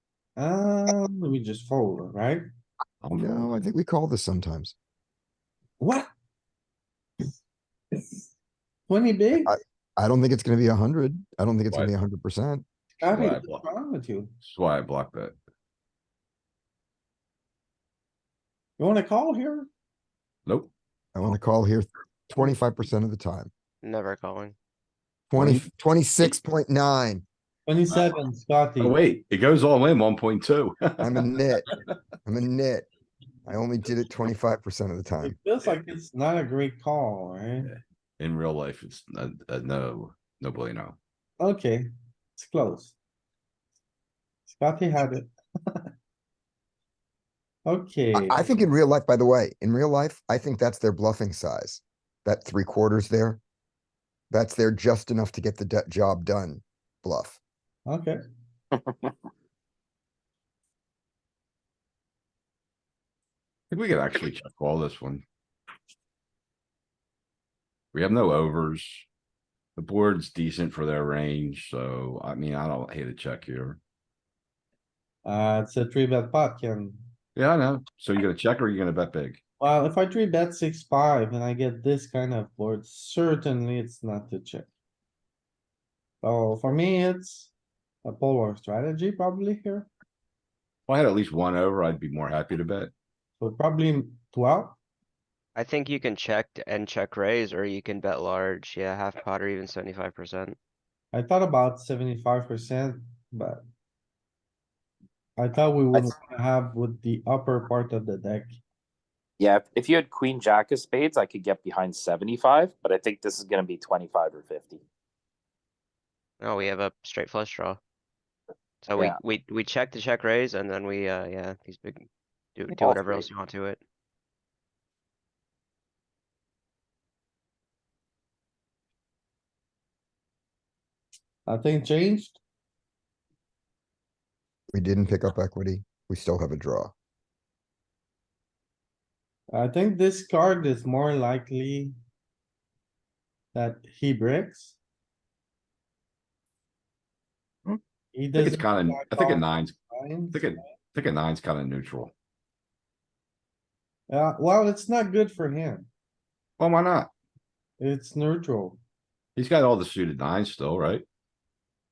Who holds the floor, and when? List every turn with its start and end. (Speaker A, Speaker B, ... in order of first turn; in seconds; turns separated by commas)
Speaker A: 0.4-2.4, Speaker B: 3.0-3.5, Speaker C: 3.2-4.8, Speaker A: 5.8-6.1, Speaker A: 8.9-9.5, Speaker C: 9.4-12.7, Speaker B: 13.0-13.7, Speaker A: 13.0-14.3, Speaker B: 14.4-15.4, Speaker A: 18.8-19.7, Speaker B: 20.5-20.7, Speaker C: 21.1-23.5, Speaker D: 23.8-24.6, Speaker C: 25.3-27.2, Speaker B: 25.4-25.6, Speaker A: 27.7-29.0, Speaker B: 28.8-31.3, Speaker C: 31.0-31.6, Speaker C: 32.3-32.9, Speaker C: 33.5-35.4, Speaker A: 35.2-37.7, Speaker B: 37.7-41.0, Speaker A: 41.4-43.0, Speaker A: 44.5-45.9, Speaker A: 47.7-48.6, Speaker C: 48.1-53.4, Speaker C: 54.3-57.4, Speaker A: 57.9-58.2, Speaker B: 63.7-65.2, Speaker B: 67.9-69.1, Speaker B: 69.8-73.8, Speaker A: 75.2-77.0, Speaker B: 77.4-79.4, Speaker A: 79.6-84.7, Speaker A: 86.2-87.5, Speaker A: 88.0-89.9, Speaker B: 90.9-92.9, Speaker A: 93.4-94.8, Speaker D: 95.6-100.6, Speaker A: 101.1-103.6, Speaker A: 105.4-108.6, Speaker E: 109.4-114.8, Speaker D: 116.4-117.8, Speaker D: 118.8-123.8, Speaker E: 122.7-123.3, Speaker A: 131.5-132.4, Speaker C: 134.7-136.9, Speaker A: 139.5-141.9, Speaker A: 143.5-144.8, Speaker A: 148.1-150.7, Speaker B: 148.3-149.8, Speaker B: 150.3-152.1, Speaker A: 154.1-155.9, Speaker B: 156.6-157.1, Speaker A: 157.8-158.8, Speaker B: 159.4-161.1